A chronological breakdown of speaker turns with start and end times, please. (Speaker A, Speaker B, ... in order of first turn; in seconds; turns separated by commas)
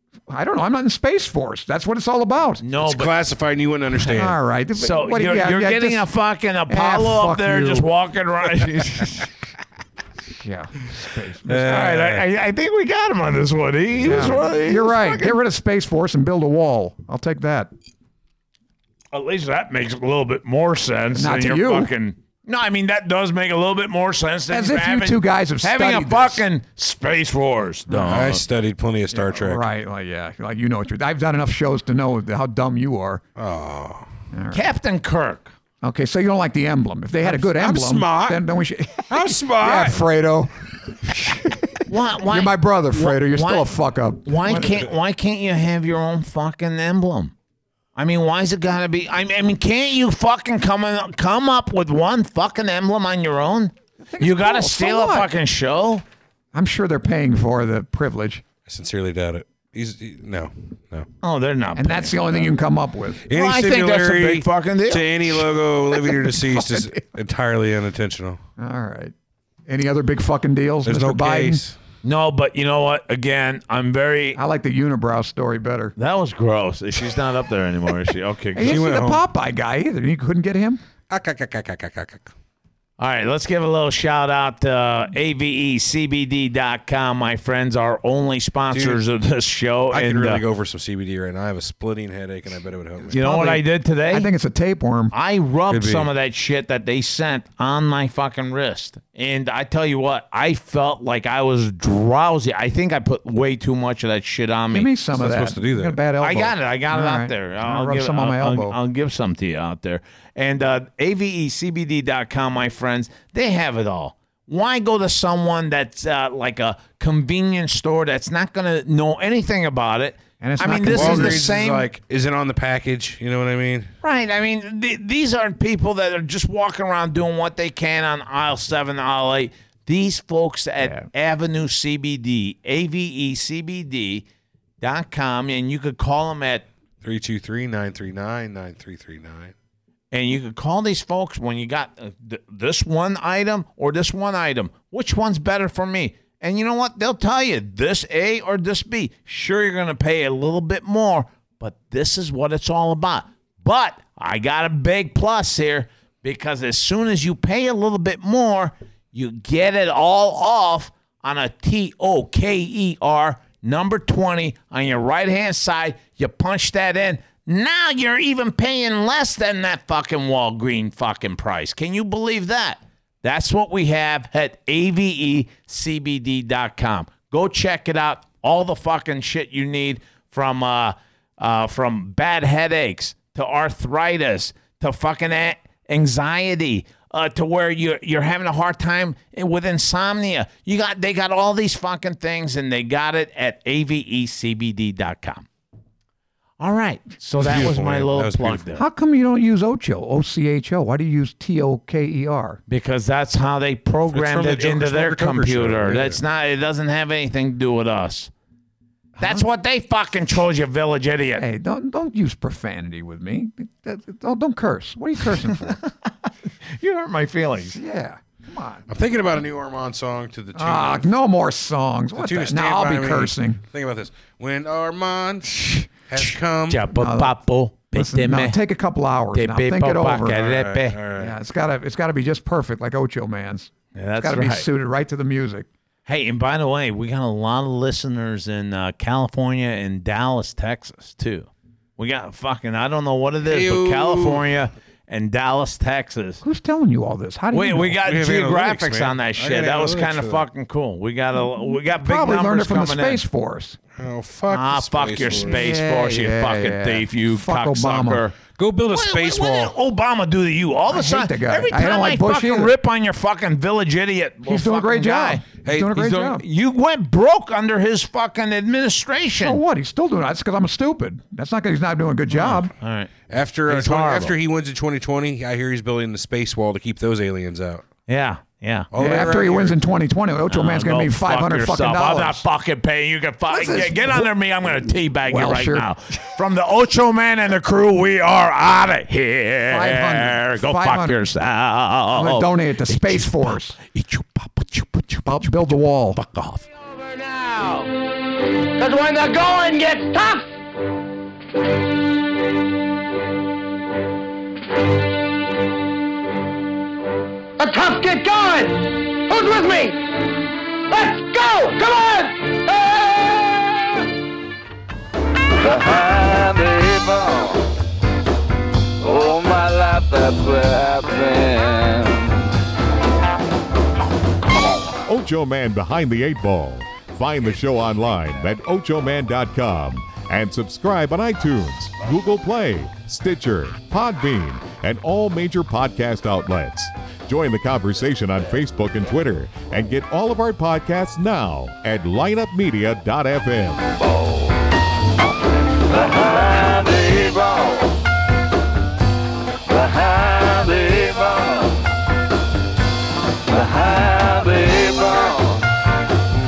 Speaker A: 0.3-2.6, Speaker B: 2.6-3.1, Speaker C: 2.8-4.4, Speaker A: 4.1-6.1, Speaker B: 4.8-9.3, Speaker A: 6.7-7.9, Speaker A: 10.3-11.9, Speaker B: 11.5-15.4, Speaker C: 11.6-12.2, Speaker A: 14.0-17.7, Speaker B: 19.1-28.4, Speaker A: 21.1-21.9, Speaker A: 24.5-26.4, Speaker A: 27.9-28.3, Speaker C: 28.1-29.6, Speaker A: 29.1-33.2, Speaker C: 33.4-34.1, Speaker A: 34.3-34.7, Speaker B: 34.5-35.5, Speaker A: 35.8-44.8, Speaker C: 37.2-38.4, Speaker C: 39.1-40.0, Speaker B: 41.9-43.7, Speaker B: 44.2-47.3, Speaker B: 48.0-56.0, Speaker A: 54.0-55.3, Speaker A: 56.5-58.5, Speaker C: 58.7-61.1, Speaker B: 61.2-62.5, Speaker A: 61.8-63.2, Speaker C: 63.3-68.4, Speaker B: 63.3-65.4, Speaker A: 66.6-66.9, Speaker A: 68.6-69.1, Speaker A: 69.7-71.6, Speaker C: 70.8-71.8, Speaker B: 72.0-74.4, Speaker A: 74.4-75.9, Speaker B: 76.0-78.8, Speaker A: 78.6-80.8, Speaker C: 78.6-79.2, Speaker C: 81.1-82.3, Speaker B: 83.0-90.4, Speaker C: 88.7-89.0, Speaker C: 89.9-93.2, Speaker A: 93.0-95.1, Speaker B: 93.1-94.3, Speaker B: 95.1-104.9, Speaker C: 95.7-96.1, Speaker A: 104.7-108.8, Speaker C: 105.1-106.0, Speaker B: 106.2-121.9, Speaker A: 120.4-121.5, Speaker C: 120.8-123.9, Speaker B: 124.0-134.3, Speaker B: 134.8-136.7, Speaker C: 137.0-139.5, Speaker B: 140.1-195.5, Speaker B: 196.6-198.8, Speaker C: 197.4-198.6, Speaker A: 198.8-202.6, Speaker B: 202.7-208.3, Speaker C: 204.1-206.2, Speaker A: 209.2-209.4, Speaker B: 209.2-211.4, Speaker A: 211.4-215.8, Speaker B: 216.7-217.8, Speaker A: 217.7-218.8, Speaker C: 218.9-221.1, Speaker A: 220.6-223.6, Speaker C: 222.2-226.8, Speaker B: 226.7-228.6, Speaker A: 226.9-227.3, Speaker A: 227.9-230.4, Speaker B: 229.3-231.0, Speaker C: 230.3-231.4, Speaker A: 231.2-235.7, Speaker B: 233.9-234.7, Speaker B: 236.1-246.4, Speaker C: 243.5-244.4, Speaker A: 246.4-248.0, Speaker B: 247.5-253.2, Speaker C: 248.1-250.5, Speaker A: 251.9-253.8, Speaker C: 254.0-255.7, Speaker B: 254.5-258.4, Speaker A: 255.3-258.2, Speaker C: 258.6-259.8, Speaker B: 258.9-269.6, Speaker A: 260.9-262.7, Speaker A: 264.5-266.4, Speaker C: 265.6-265.9, Speaker A: 269.4-272.7, Speaker B: 272.3-273.1, Speaker C: 273.3-277.9, Speaker B: 273.7-274.4, Speaker B: 278.1-278.9, Speaker C: 278.9-279.8, Speaker A: 279.0-282.4, Speaker B: 280.5-297.9, Speaker A: 283.5-284.3, Speaker A: 285.3-285.9, Speaker A: 289.7-291.2, Speaker A: 292.1-293.8, Speaker A: 295.2-296.2, Speaker D: 298.8-300.5, Speaker D: 307.6-310.1, Speaker D: 310.9-313.6, Speaker E: 315.6-317.6, Speaker E: 319.0-322.4, Speaker F: 325.1-343.9, Speaker E: 345.8-348.0, Speaker E: 349.7-351.9, Speaker E: 353.5-355.7